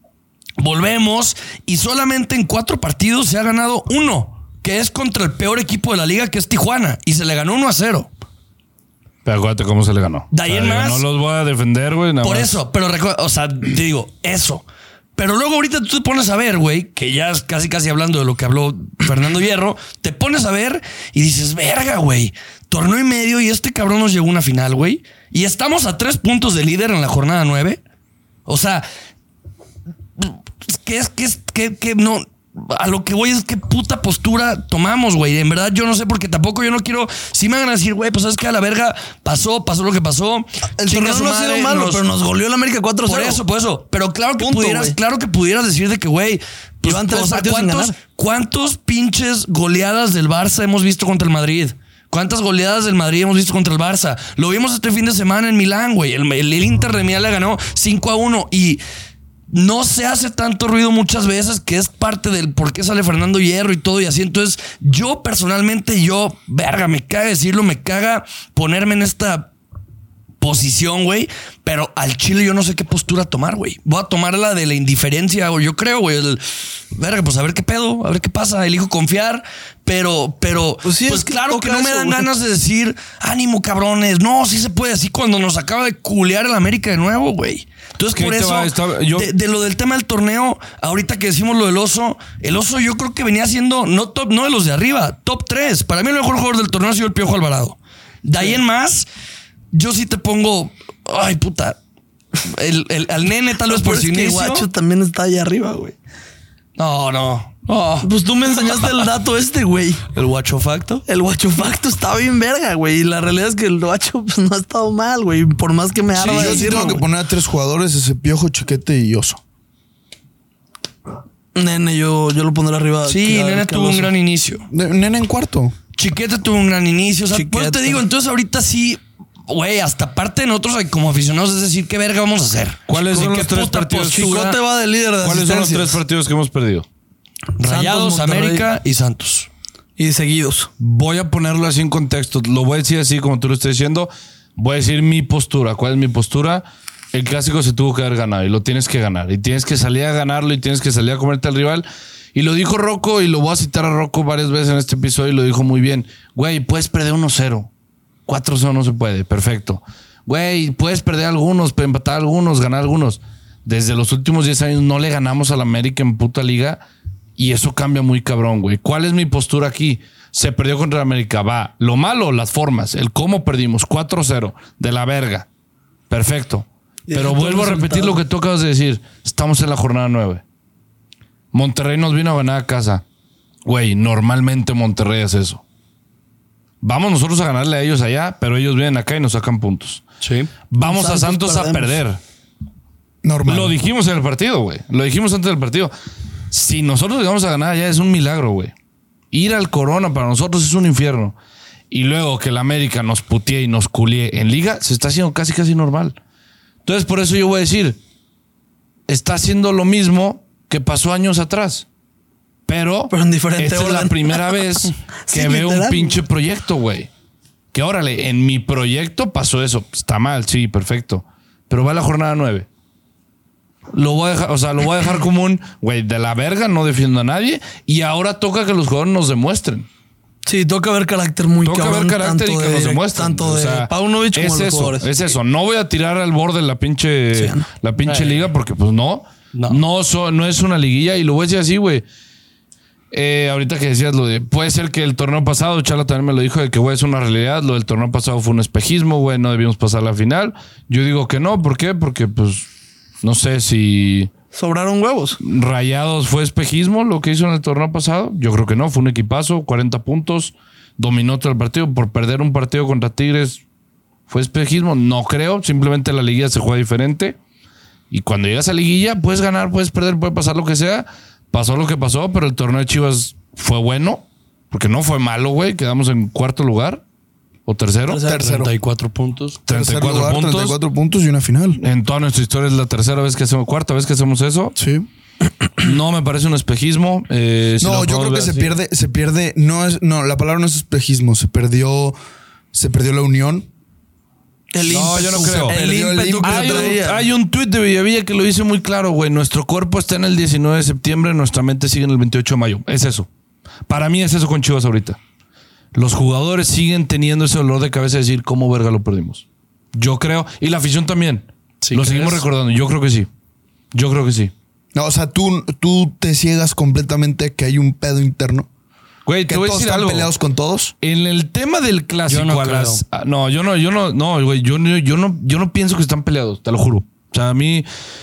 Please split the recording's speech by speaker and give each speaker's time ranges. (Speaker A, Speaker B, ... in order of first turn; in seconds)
Speaker A: 0.6-8.1, 10.3-11.0, 12.2-14.6, 15.2-27.8, 28.4-28.9, 30.2-42.0, 43.0-58.8, 59.5-69.5, 70.4-99.0, 99.7-101.8, 102.4-104.7, 106.8-108.1, 110.1-111.0, 116.1-117.0, 123.0-124.7, 126.0-134.6, 137.6-139.5, 190.2-190.5, 238.0-238.5, 239.5-239.8, 278.3-279.6, 311.8-312.4, 322.3-323.0
Speaker B: 9.2-12.5, 88.1-89.3, 132.9-134.4, 135.2-136.8, 140.8-157.7, 158.2-166.8, 167.4-175.5, 176.1-180.4, 181.5-183.0, 183.6-185.6, 186.8-190.0, 190.7-192.2, 193.4-195.9, 196.5-198.7, 199.3-201.4, 201.9-206.2, 206.8-208.0, 209.1-211.8, 212.7-217.1, 217.7-222.7, 223.9-229.9, 231.6-242.0, 243.1-252.7, 253.2-254.3, 255.4-263.6, 264.3-267.4, 268.1-277.0, 277.6-278.3, 279.7-280.8, 281.8-284.7, 285.8-288.7, 294.8-295.8, 296.4-303.3, 303.9-305.2, 305.9-313.3, 313.9-314.5, 319.2-320.3, 321.0-327.9
Speaker C: 40.8-43.4, 44.4-45.0, 46.8-48.0, 80.8-82.3, 103.7-105.9, 108.0-110.0, 111.1-117.0, 121.5-124.1, 127.3-128.0, 134.1-136.0, 137.6-138.7, 140.0-140.7, 177.1-178.2, 190.8-192.0, 213.1-214.6, 215.3-216.2, 230.4-235.1, 237.3-237.6, 254.5-255.4, 278.1-278.5, 294.7-297.2
Speaker D: 116.2-119.4, 124.7-125.7, 193.2-193.8, 278.2-278.7, 279.7-281.8, 284.8-285.1, 287.8-292.2, 292.7-293.7, 295.1-297.0, 314.9-318.7, 319.4-320.9